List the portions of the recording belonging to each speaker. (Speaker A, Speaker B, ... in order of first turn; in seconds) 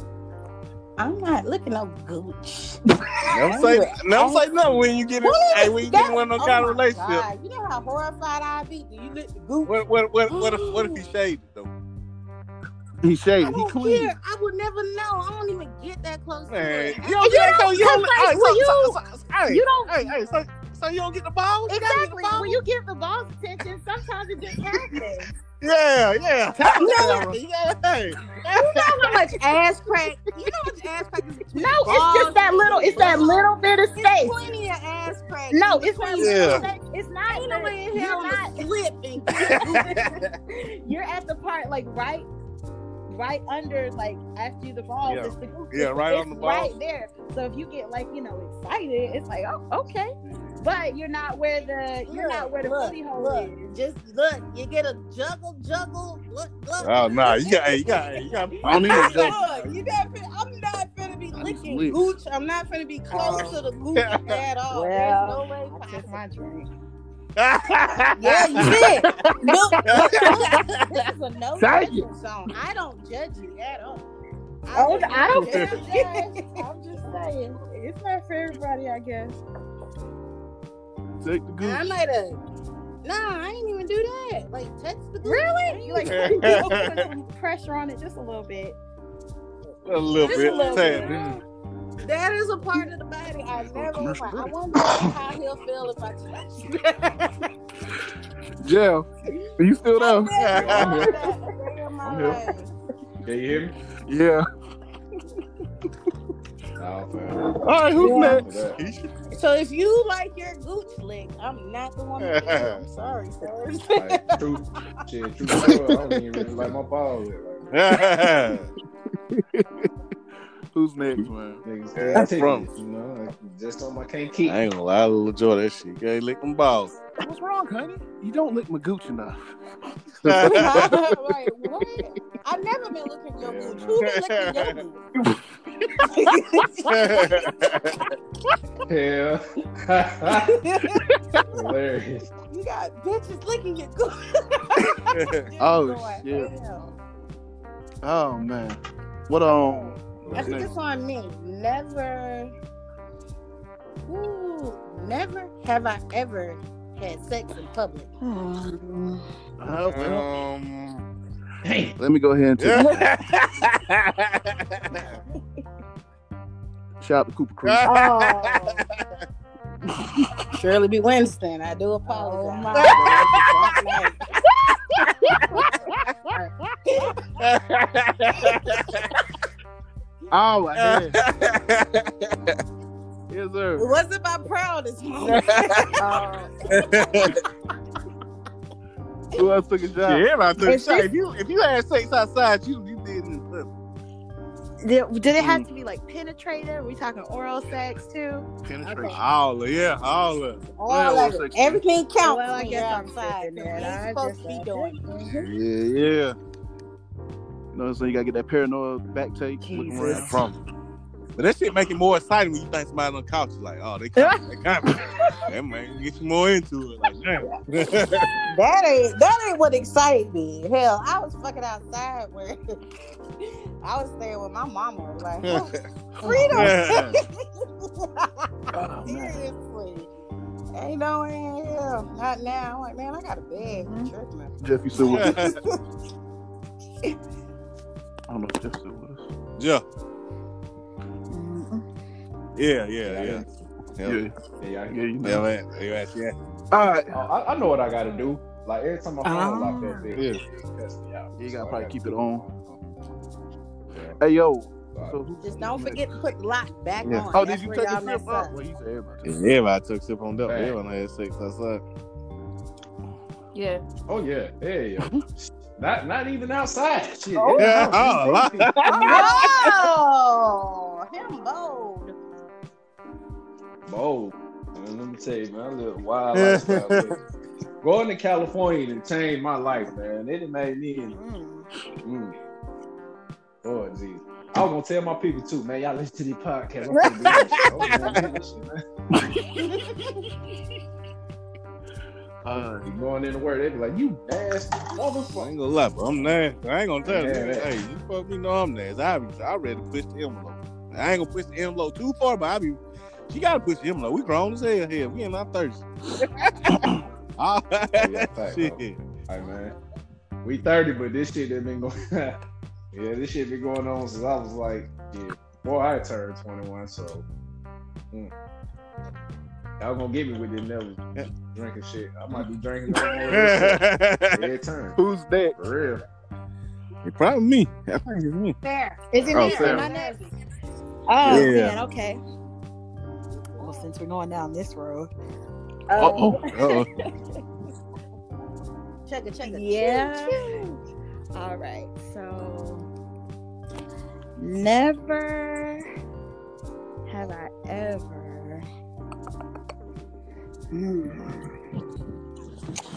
Speaker A: 1.0-9.7, 10.3-11.0, 13.4-20.1, 21.7-22.6, 24.4-25.1, 26.6-27.3, 28.5-36.7, 37.3-39.9, 52.1-66.2, 68.2-74.0, 74.6-76.7, 81.6-82.4, 83.0-86.8, 90.2-91.2, 92.0-97.5, 100.0-102.7, 109.3-114.5, 130.4-135.0, 136.1-137.2, 142.5-146.8, 150.3-152.5, 154.1-158.1, 170.5-174.3, 183.8-186.2, 186.7-187.3, 200.6-205.0, 218.5-222.8, 223.4-228.5, 229.0-230.1, 230.7-235.5, 255.4-258.5, 268.9-272.1, 328.6-330.3, 339.1-340.6
Speaker B: 3.3-7.2, 9.6-11.7, 16.5-21.9, 25.6-29.2, 36.2-36.6, 39.4-40.3, 45.0-46.7, 56.8-59.3, 63.9-64.4, 67.4-69.3, 69.9-70.8, 75.3-75.7, 86.1-86.9, 89.8-91.2, 100.3-101.1, 108.8-109.1, 112.2-112.8, 115.6-116.0, 117.7-118.7, 122.0-122.7, 124.4-126.9, 130.2-131.0, 134.1-134.7, 136.9-138.0, 145.1-145.4, 159.8-161.0, 162.6-165.2, 167.6-169.0, 172.7-173.7, 175.3-176.0, 177.4-179.1, 180.8-182.6, 185.2-186.0, 186.7-187.4, 190.0-193.7, 199.1-200.6, 205.3-206.3, 211.4-218.3, 226.5-227.2, 235.0-235.6, 239.6-239.8, 242.6-243.4, 245.2-246.3, 250.2-250.4, 259.2-261.8, 267.6-269.3, 276.3-277.1, 287.4-288.2, 295.3-306.9, 307.4-309.0, 323.3-324.5, 327.0-328.6, 329.3-329.9, 331.2-331.8
Speaker C: 13.0-14.1, 58.6-59.4, 61.4-62.0, 71.6-72.1, 81.2-81.8, 93.5-94.5, 98.6-99.1, 99.6-100.3, 104.0-104.5, 107.6-108.5, 119.3-119.9, 120.7-121.6, 127.2-129.5, 130.3-130.6, 145.6-146.5, 148.0-150.7, 159.6-160.3, 162.0-162.9, 167.0-167.8, 180.3-181.2, 183.3-183.9, 189.3-190.2, 195.4-195.6, 198.6-199.2, 200.9-201.8, 207.7-210.5, 226.3-226.6, 228.8-229.3, 234.6-235.5, 238.3-239.3, 244.0-244.3, 244.9-245.5, 246.7-247.2, 251.4-252.4, 254.2-256.1, 257.3-259.4, 289.2-289.5, 292.4-292.9, 325.0-325.6, 329.4-329.8, 335.9-336.9
Speaker D: 21.7-25.3, 31.5-34.3, 35.5-38.6, 39.5-42.3, 43.1-53.7, 63.1-63.6, 64.7-66.7, 69.4-70.4, 74.7-79.4, 85.2-88.8, 90.2-91.3, 100.9-101.4, 108.0-108.4, 130.8-132.0, 136.1-136.7, 158.2-159.2, 162.7-163.2, 167.8-168.8, 172.1-173.2, 175.0-175.7, 186.0-186.9, 190.6-191.1, 194.8-199.2, 202.2-205.5, 209.6-210.3, 214.2-214.4, 214.9-215.4, 233.6-234.1, 241.3-241.8, 249.2-250.1, 263.5-263.8, 267.3-268.2, 268.8-269.8, 281.1-281.7, 329.1-330.1, 331.1-332.2, 333.6-335.1, 335.9-336.9, 339.4-340.8, 341.3-342.9, 344.4-345.8, 347.1-348.6, 350.7-351.4
Speaker E: 91.1-91.3, 100.5-101.1, 102.0-102.4, 103.2-103.7, 106.8-108.8, 113.9-117.7, 121.6-124.6, 133.4-134.0, 138.9-140.6, 141.5-142.3, 161.6-161.9, 243.0-243.5, 244.6-245.0, 247.1-252.8, 253.9-254.2, 254.9-255.2, 260.4-260.8, 264.1-268.7, 273.9-277.2, 277.8-281.1, 282.0-282.4, 283.6-288.8, 292.8-295.5, 297.0-297.7, 307.9-309.7, 310.4-312.4, 312.9-317.2, 319.8-321.0, 321.5-325.0, 325.6-326.0